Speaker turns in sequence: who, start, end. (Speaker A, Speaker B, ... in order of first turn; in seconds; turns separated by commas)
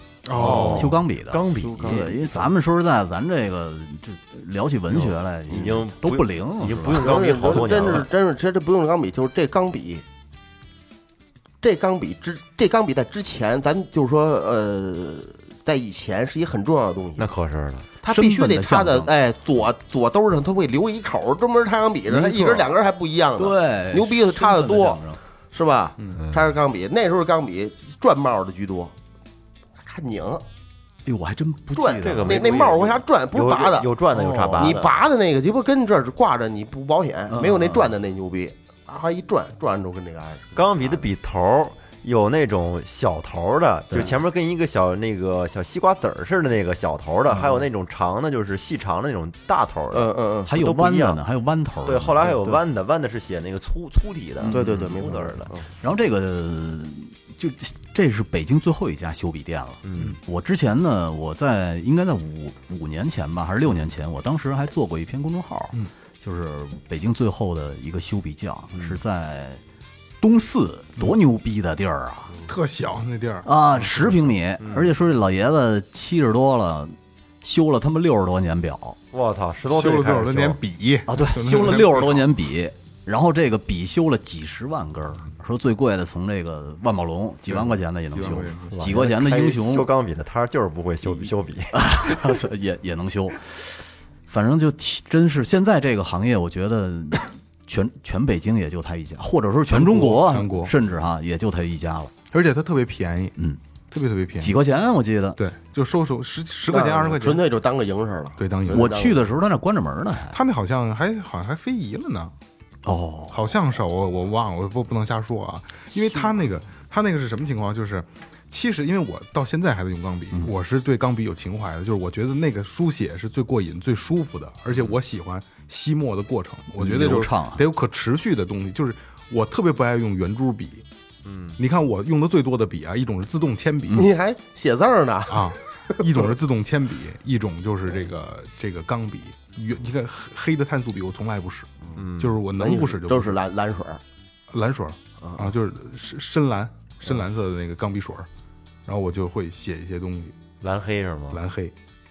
Speaker A: 0.2-1.0, Speaker B: 0.3-2.5, Speaker C: 0.3-8.0, Speaker B: 4.9-8.1, Speaker D: 6.9-10.0, Speaker D: 11.6-17.3, Speaker B: 17.2-17.9, Speaker D: 18.0-28.9, Speaker C: 18.1-19.1, Speaker C: 22.1-22.7, Speaker C: 23.4-25.2, Speaker B: 26.1-26.6, Speaker D: 29.8-30.4, Speaker C: 31.1-32.5, Speaker D: 31.8-33.9, Speaker B: 32.0-35.0, Speaker C: 34.1-34.8, Speaker D: 34.6-41.0, Speaker C: 37.3-37.9, Speaker B: 40.5-51.2, Speaker C: 43.9-44.2, Speaker D: 49.9-50.5, Speaker C: 50.5-52.4, Speaker B: 51.9-55.5, Speaker C: 54.4-54.7, Speaker D: 54.5-55.7, Speaker C: 55.8-69.6, Speaker B: 59.8-60.2, Speaker B: 68.7-69.0, Speaker C: 70.2-72.3, Speaker A: 72.5-74.3, Speaker C: 73.5-79.0, Speaker B: 74.6-74.9, Speaker B: 79.1-80.6, Speaker A: 79.7-82.3, Speaker C: 81.1-89.9, Speaker A: 87.5-88.9, Speaker B: 88.7-91.8, Speaker C: 91.0-102.1, Speaker A: 99.7-100.7, Speaker A: 102.3-103.3, Speaker A: 103.9-104.5, Speaker C: 104.4-105.4, Speaker A: 105.4-107.5, Speaker D: 106.7-109.2, Speaker A: 108.4-109.1, Speaker C: 108.7-110.4, Speaker A: 110.3-112.3, Speaker C: 112.8-113.5, Speaker A: 113.3-130.8, Speaker B: 124.7-125.0, Speaker C: 126.8-127.6, Speaker B: 131.2-131.6, Speaker A: 131.6-134.1, Speaker D: 133.9-136.0, Speaker A: 135.3-143.4, Speaker B: 142.0-142.4, Speaker D: 142.6-144.0, Speaker A: 144.5-148.3, Speaker A: 148.9-150.3, Speaker B: 150.6-151.4, Speaker A: 151.3-151.7